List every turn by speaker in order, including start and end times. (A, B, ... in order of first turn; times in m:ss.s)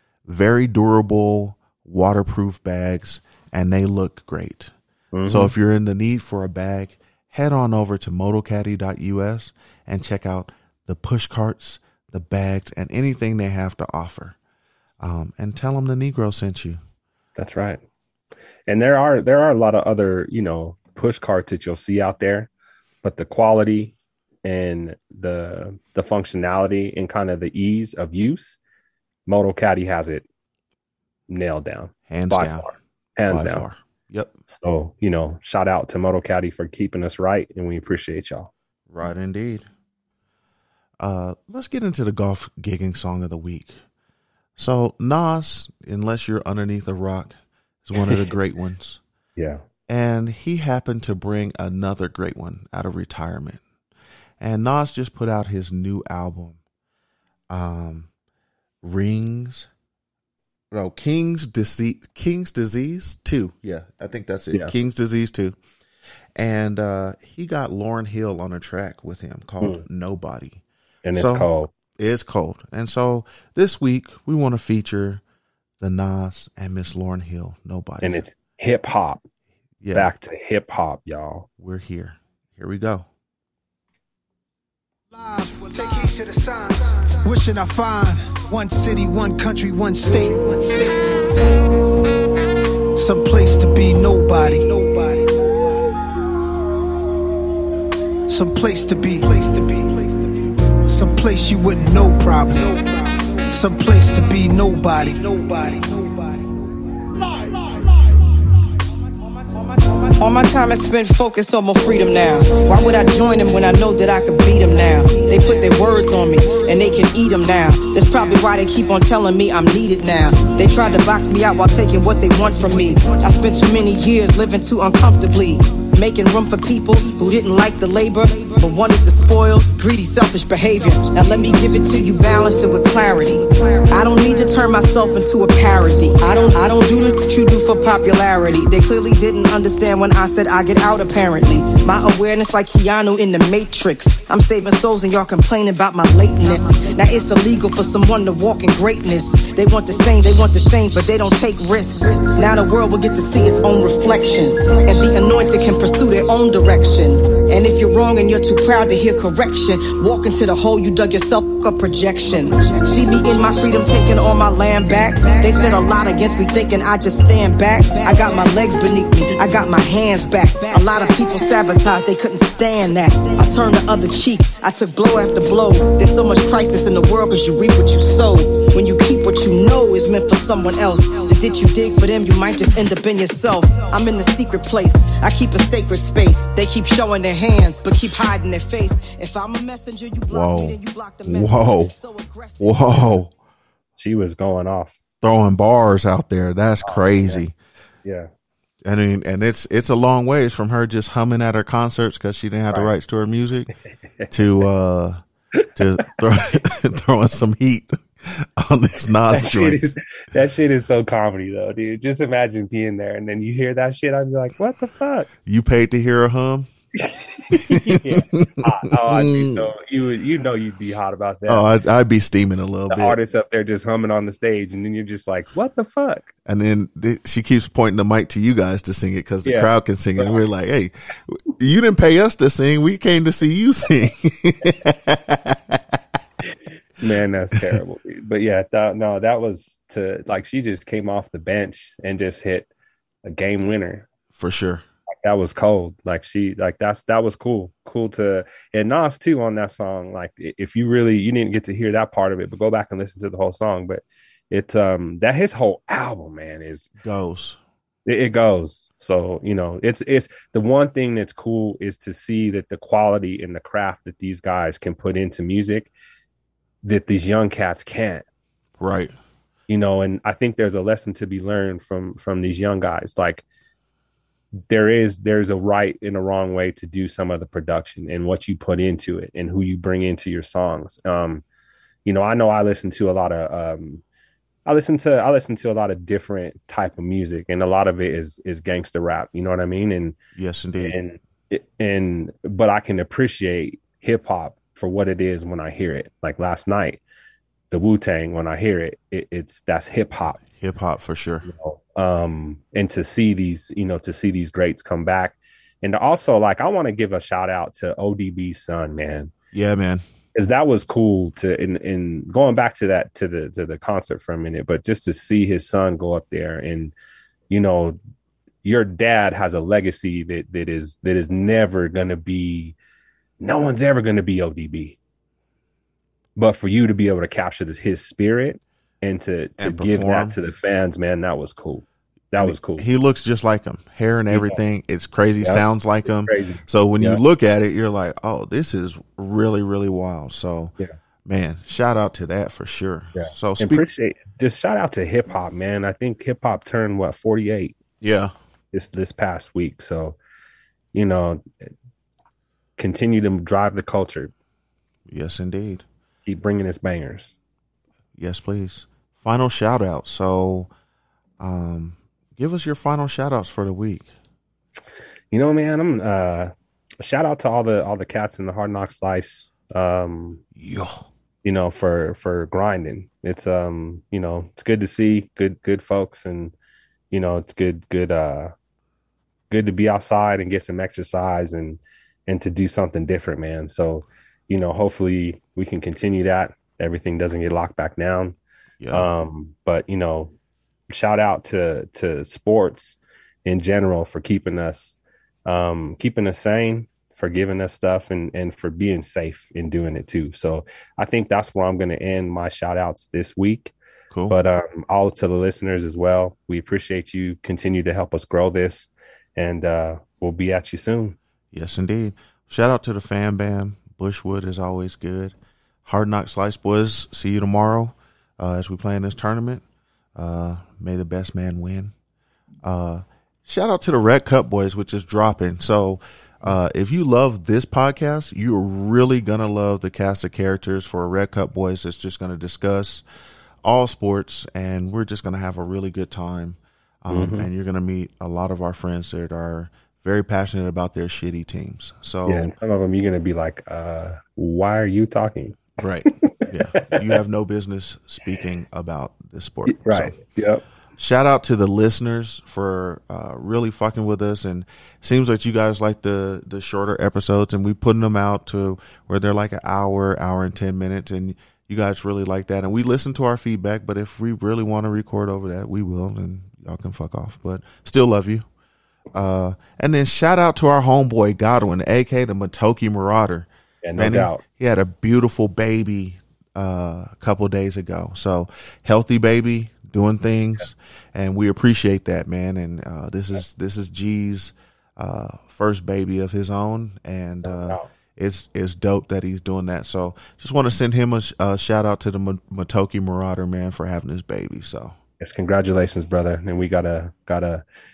0:00.2-0:04.7 A
0:05.1-0:05.5 B
0:05.3-0:14.4 A
0:15.0-0:16.8 A
0:17.4-0:17.8 B
0:18.7-0:22.5 B
0:23.0-0:28.6 B
0:29.3-0:30.2 B
0:31.3-0:33.7 B
0:32.1-0:32.7 A
0:33.3-0:34.3 A
0:34.5-0:38.5 B
0:38.9-0:39.6 A
0:41.0-0:43.8 A
0:44.6-0:49.0 A
0:49.4-0:49.6 B
0:49.9-0:53.6 A
0:54.4-0:56.6 A
0:57.5-0:58.1 A
0:58.8-0:59.7 A
1:00.7-1:05.6 A
1:06.4-1:10.6 A
1:11.0-1:11.7 B
1:11.1-1:15.2 A
1:15.8-1:18.2 A
1:18.0-1:19.2 B
1:19.8-1:20.1 A
1:19.9-1:21.5 B
1:21.6-1:23.1 A
1:25.1-1:31.6 C
1:33.0-1:35.4 C
1:38.3-1:40.2 C
1:40.9-1:46.2 C
1:49.1-3:13.2 D
3:10.3-3:12.0 A
3:12.6-3:13.3 A
3:14.0-3:15.0 B
3:15.2-3:17.5 A
3:16.8-3:17.4 B
3:18.0-3:18.3 B
3:18.8-3:23.7 A
3:24.3-3:25.2 A
3:25.7-3:29.9 A
3:29.3-3:35.3 B
3:35.4-3:36.7 A
3:37.0-3:41.6 B
3:37.5-3:39.7 A
3:41.5-3:43.2 A
3:42.9-3:46.3 B
3:46.4-3:55.8 A
3:49.4-3:50.4 B
3:57.0-4:02.7 B
4:03.2-4:04.1 B
4:04.3-4:04.8 A
4:05.2-4:16.9 B
4:17.0-4:17.6 A
4:18.0-4:25.9 B
4:26.8-4:28.2 B
4:28.8-4:29.1 A
4:29.7-4:33.4 B
4:34.7-4:41.4 B
4:42.0-4:44.0 B
4:44.6-4:50.2 B
4:50.3-4:51.0 A
4:50.8-4:57.0 B
4:57.7-5:00.4 B
5:00.4-5:01.4 A
5:01.4-5:09.3 B
5:09.5-5:10.0 A
5:10.3-5:16.9 B
5:17.5-5:18.0 B
5:18.6-5:22.8 B
5:23.4-5:25.0 B
5:26.4-5:32.8 B
5:29.6-5:30.4 A
5:32.4-5:40.7 A
5:34.3-5:34.6 B
5:35.4-5:37.2 B
5:41.2-5:43.8 A
5:43.1-5:47.8 B
5:48.0-5:48.3 A
5:48.7-5:50.2 B
5:50.9-5:51.7 B
5:52.8-5:54.3 B
5:55.1-5:55.8 A
5:56.2-5:57.4 B
5:58.2-6:00.7 A
6:01.4-6:04.1 A
6:05.3-6:10.4 B
6:10.5-6:11.1 A
6:11.4-6:16.5 B
6:17.1-6:18.5 B
6:19.5-6:28.4 B
6:28.8-6:29.1 A
6:28.9-6:30.3 B
6:30.9-6:43.7 B
6:44.1-6:44.4 A
6:44.3-6:51.2 B
6:51.5-6:59.6 A
7:00.2-7:01.9 A
7:02.6-7:13.0 A
7:13.6-7:22.5 A
7:17.1-7:17.5 B
7:22.2-7:27.0 B
7:25.8-7:30.1 A
7:29.6-7:30.6 B
7:31.0-7:48.4 A
7:49.1-8:14.9 A
7:53.8-7:54.4 B
8:07.4-8:07.9 B
8:15.2-8:17.6 B